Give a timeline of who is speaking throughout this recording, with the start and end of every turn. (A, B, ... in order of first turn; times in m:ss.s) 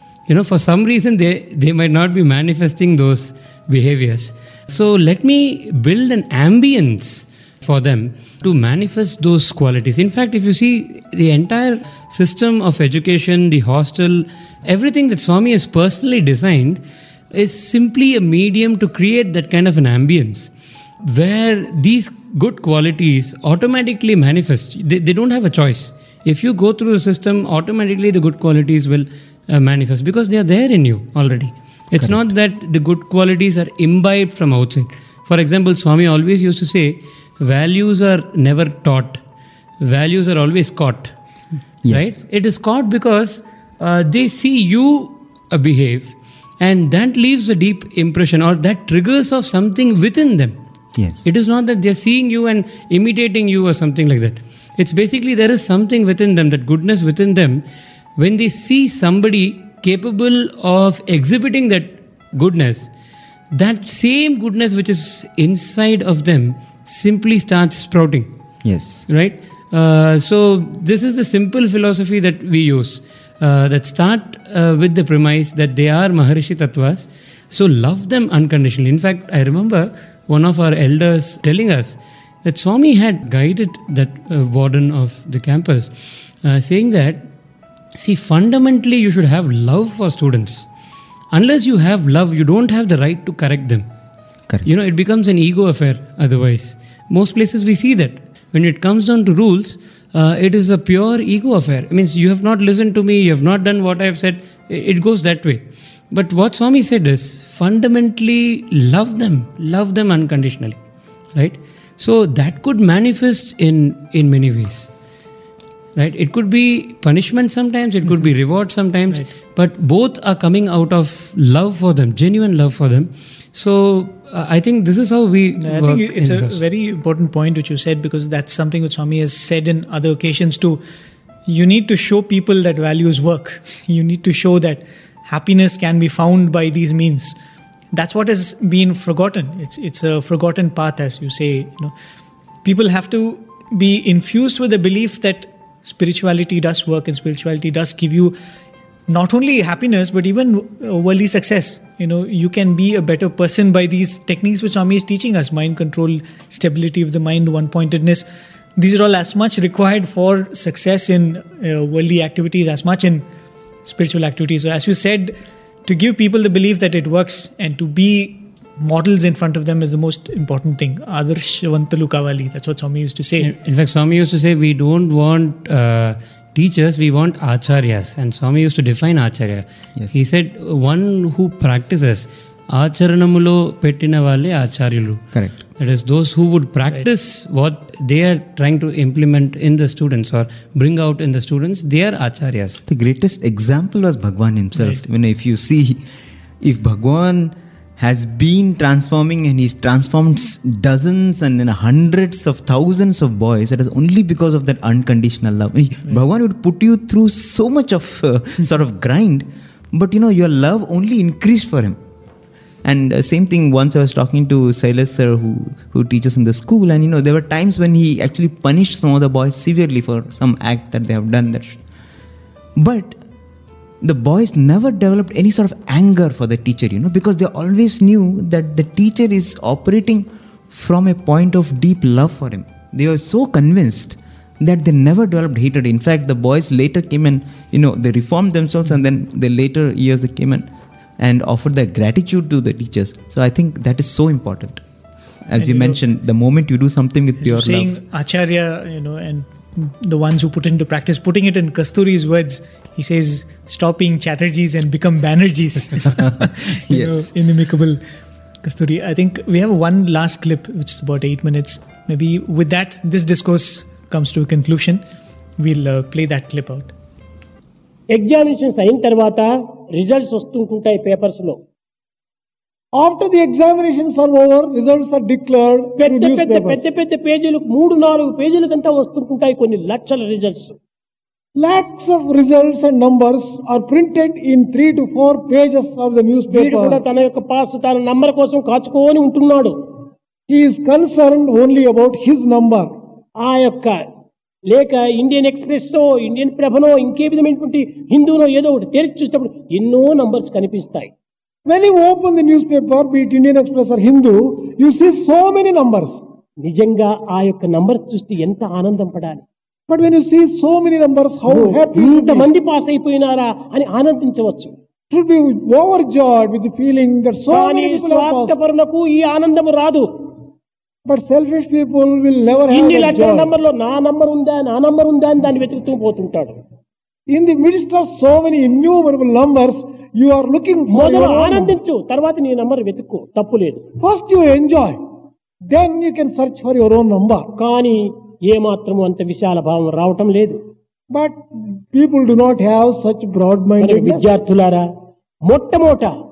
0:00.3-0:16.8 A
0:17.3-0:20.5 A
0:21.0-0:39.2 A
0:39.8-0:41.1 A
0:41.8-0:42.2 B
0:41.9-0:50.6 A
0:51.0-0:51.2 B
0:51.2-0:57.6 A
0:58.2-1:02.9 A
1:03.5-1:08.3 A
1:08.6-1:09.0 B
1:09.1-1:27.3 A
1:27.9-1:30.7 A
1:31.3-1:33.9 A
1:34.6-1:50.8 A
1:51.3-1:54.9 A
1:56.0-2:06.6 A
2:05.6-2:10.8 C
2:11.4-2:17.4 C
2:17.9-2:21.9 C
2:22.6-2:28.3 C
2:29.1-2:43.2 C
2:43.8-2:45.3 C
2:45.8-2:53.5 C
2:53.4-3:12.8 A
3:05.3-3:05.6 B
3:12.9-3:16.0 B
3:16.6-3:32.0 B
3:32.8-3:41.8 B
3:42.8-3:43.2 B
3:44.0-4:00.7 B
4:01.2-4:04.8 B
4:05.4-4:07.9 B
4:05.6-4:06.0 C
4:07.4-4:18.0 C
4:16.1-4:17.3 B
4:18.6-4:25.0 C
4:25.6-4:26.9 C
4:28.1-4:31.6 D
4:32.9-4:36.8 E
4:36.0-4:40.8 D
4:41.6-4:47.0 E
4:46.5-4:49.8 D
4:50.5-4:52.9 E
4:53.4-4:54.0 D
4:54.7-5:01.1 D
5:01.6-5:06.2 E
5:06.6-5:09.4 D
5:09.9-5:12.5 E
5:11.5-5:14.7 D
5:15.1-5:18.6 E
5:17.5-5:20.3 D
5:21.0-5:23.5 E
5:22.7-5:26.6 D
5:27.3-5:31.7 E
5:30.9-5:33.8 D
5:34.0-5:35.0 E
5:35.7-5:37.5 E
5:37.6-5:40.6 D
5:41.1-5:44.3 E
5:43.8-5:44.9 D
5:45.4-5:46.1 D